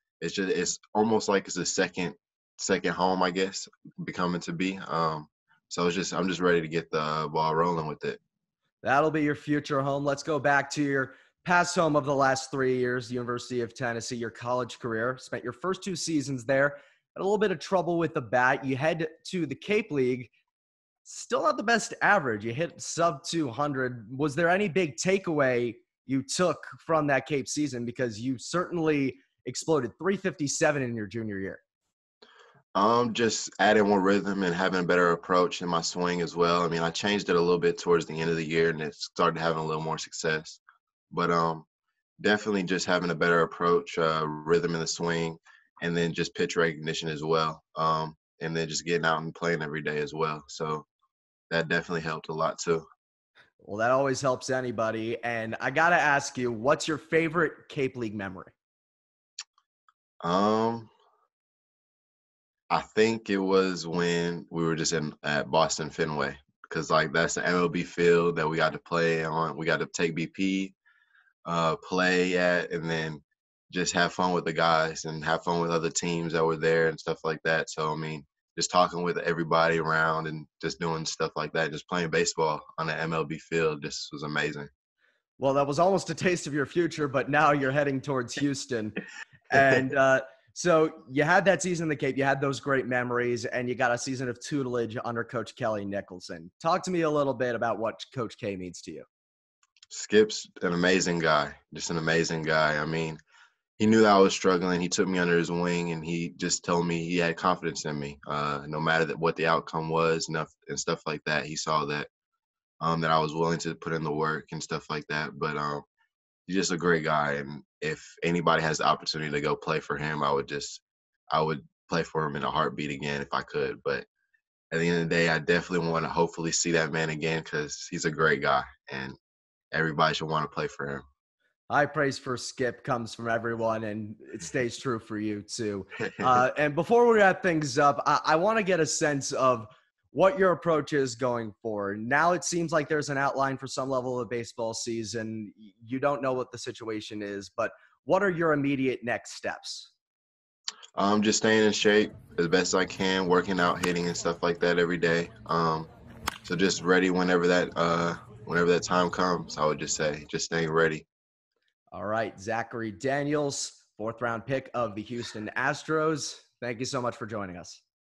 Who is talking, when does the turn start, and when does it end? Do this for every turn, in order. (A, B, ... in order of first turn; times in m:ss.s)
0:00.2-0:08.2 A
0:08.8-0:20.3 B
0:21.0-0:31.6 B
0:32.7-0:41.7 A
0:42.2-0:50.8 A
0:51.5-0:52.8 A
0:53.6-0:58.5 B
1:00.2-1:00.9 A
1:02.7-1:10.8 A
1:11.4-1:24.7 A
1:25.4-1:29.0 B
1:29.5-1:39.0 B
1:39.9-1:43.2 A
1:43.8-1:52.1 A
1:52.8-1:55.8 A
1:56.5-2:04.0 A
2:04.7-2:09.2 A
2:09.7-2:11.0 A
2:11.7-2:29.9 B
2:31.0-2:35.9 A
2:36.4-2:41.0 A
2:41.9-2:47.8 B